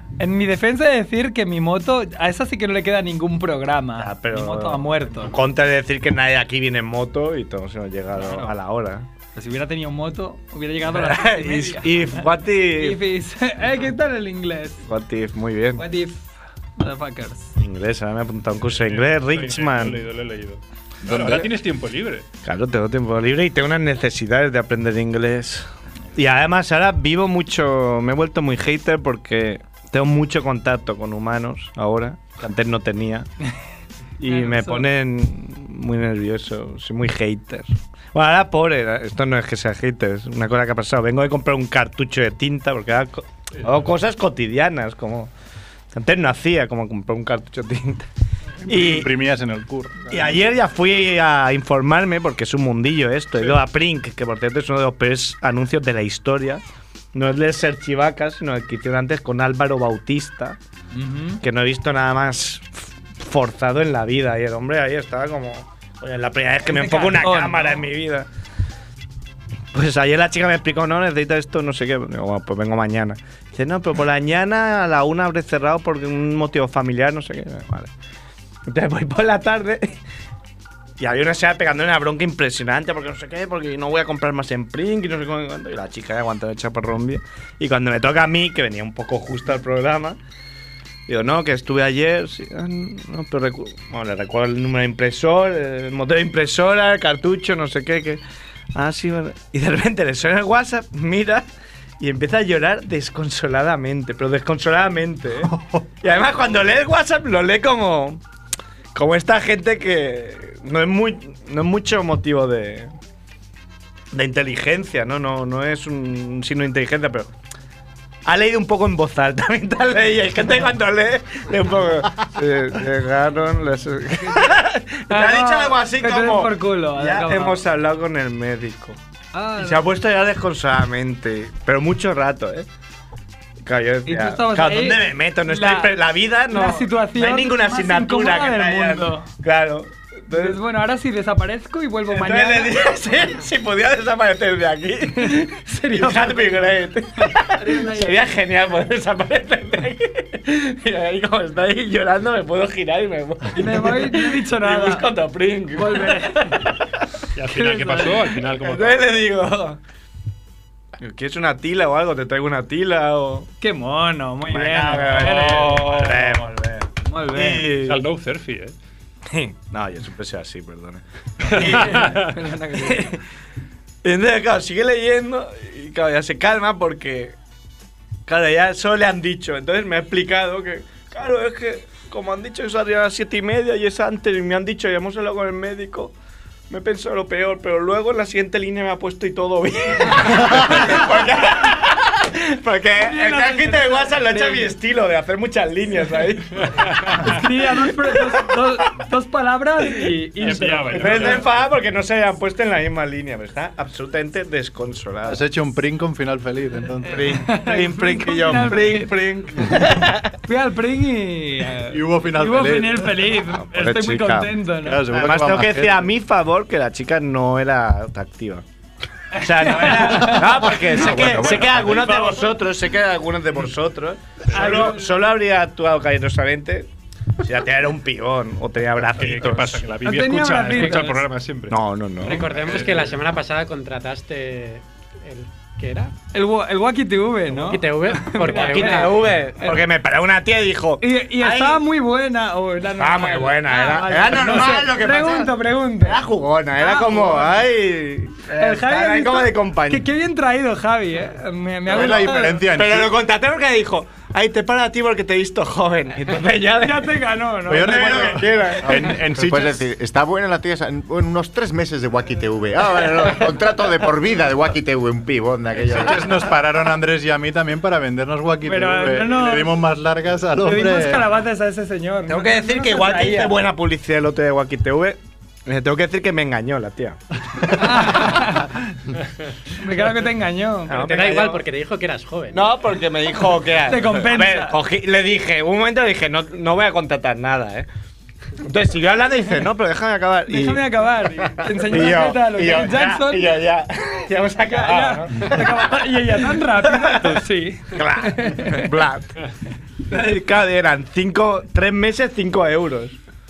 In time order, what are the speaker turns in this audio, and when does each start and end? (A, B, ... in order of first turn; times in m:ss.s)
0:00.2-0:05.3 A
0:04.0-0:09.1 B
0:08.1-0:08.5 A
0:09.3-0:14.8 A
0:10.9-0:13.0 B
0:14.8-0:15.8 B
0:15.8-0:17.5 A
0:17.6-0:20.0 B
0:18.7-0:22.2 C
0:21.1-0:21.4 B
0:22.4-0:33.3 B
0:34.2-0:45.3 B
0:34.2-0:34.9 A
0:43.6-0:43.9 C
0:45.9-0:48.1 B
0:48.6-0:50.2 D
0:48.6-0:49.1 B
0:50.1-0:56.6 B
0:57.1-1:00.6 B
1:00.9-1:01.4 A
1:01.4-1:08.3 B
1:06.6-1:07.9 A
1:09.7-1:17.9 B
1:18.7-1:20.0 B
1:21.0-1:30.2 B
1:31.1-1:38.2 B
1:38.7-1:41.5 B
1:42.0-1:48.2 B
1:45.5-1:45.8 D
1:48.9-1:52.9 B
1:54.1-1:57.3 B
1:58.2-2:09.0 B
2:05.1-2:07.6 A
2:09.3-2:09.9 A
2:09.6-2:12.7 B
2:13.6-2:20.6 B
2:14.0-2:15.9 A
2:16.5-2:19.3 A
2:20.3-2:22.8 A
2:22.1-2:36.7 B
2:25.2-2:26.7 A
2:27.2-2:28.2 A
2:33.6-2:35.1 A
2:35.7-2:36.7 A
2:37.3-2:39.2 C
2:37.5-2:38.2 A
2:38.6-2:39.8 B
2:41.0-2:43.5 B
2:43.6-2:45.9 A
2:44.5-2:48.0 B
2:44.9-2:46.4 C
2:47.0-2:47.7 A
2:47.7-2:48.7 C
2:49.2-2:53.2 B
2:51.5-2:52.3 C
2:51.6-2:53.1 A
2:54.0-2:57.4 B
2:58.2-3:06.1 B
3:06.7-3:18.5 B
3:13.0-3:14.7 A
3:16.7-3:17.2 C
3:17.2-3:21.4 A
3:20.4-3:21.6 C
3:20.9-3:25.4 B
3:25.2-3:27.4 D
3:27.1-3:30.3 B
3:27.3-3:29.7 A
3:30.4-3:35.1 A
3:31.9-3:33.3 D
3:33.5-3:34.5 B
3:34.8-3:36.1 D
3:35.1-3:38.6 B
3:39.3-3:41.5 A
3:39.3-3:46.9 B
3:40.8-3:42.1 E
3:42.1-3:42.5 C
3:44.5-3:44.8 C
3:44.5-3:45.1 A
3:47.4-3:49.8 B
3:49.0-3:53.2 C
3:50.0-3:51.2 A
3:51.7-3:52.6 B
3:52.2-3:56.1 F
3:56.3-3:59.8 A
3:57.6-3:59.2 F
3:58.4-4:01.8 B
4:01.0-4:06.2 A
4:03.0-4:10.0 B
4:06.8-4:07.6 A
4:08.6-4:12.6 A
4:11.8-4:13.1 D
4:11.9-4:17.2 B
4:16.8-4:19.0 A
4:17.7-4:19.8 D
4:17.7-4:19.1 B
4:18.9-4:26.2 E
4:25.8-4:31.3 D
4:28.6-4:29.8 A
4:30.6-4:33.6 A
4:32.3-4:38.2 B
4:37.7-4:38.9 A
4:39.7-4:41.0 A
4:40.9-4:41.6 B
4:41.0-4:42.6 F
4:42.5-4:47.9 B
4:43.9-4:44.8 A
4:48.6-4:57.4 B
4:50.5-4:53.5 A
4:54.6-4:58.9 A
4:57.9-4:59.4 B
5:00.0-5:03.2 B